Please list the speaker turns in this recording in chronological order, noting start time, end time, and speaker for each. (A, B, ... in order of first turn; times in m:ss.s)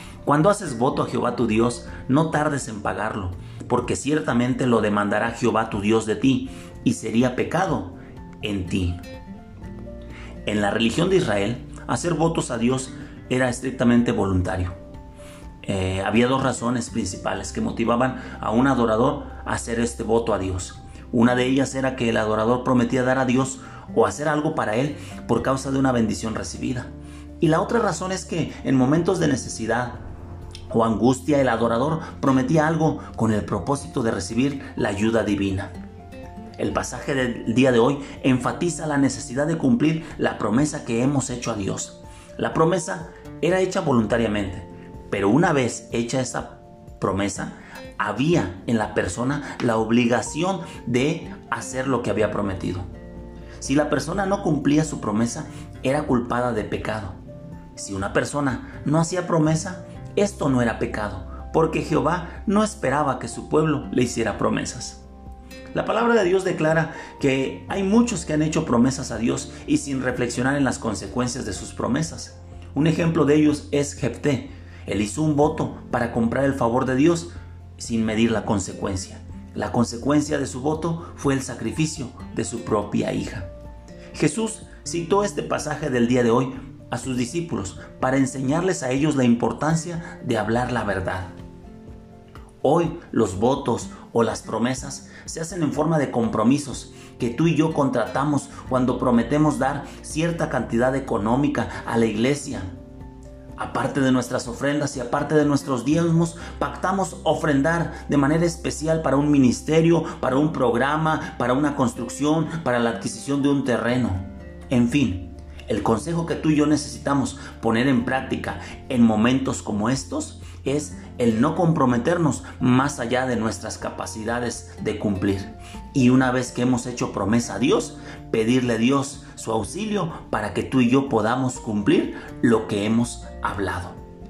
0:00.2-0:09.0 A
0:10.5-0:14.8 A
0:15.6-0:30.0 A
0:30.7-0:35.7 A
0:36.6-0:52.9 A
0:53.6-0:57.2 A
0:57.7-1:05.0 A
1:05.7-1:23.5 A
1:24.1-1:31.3 A
1:32.6-1:42.7 A
1:43.6-2:14.0 A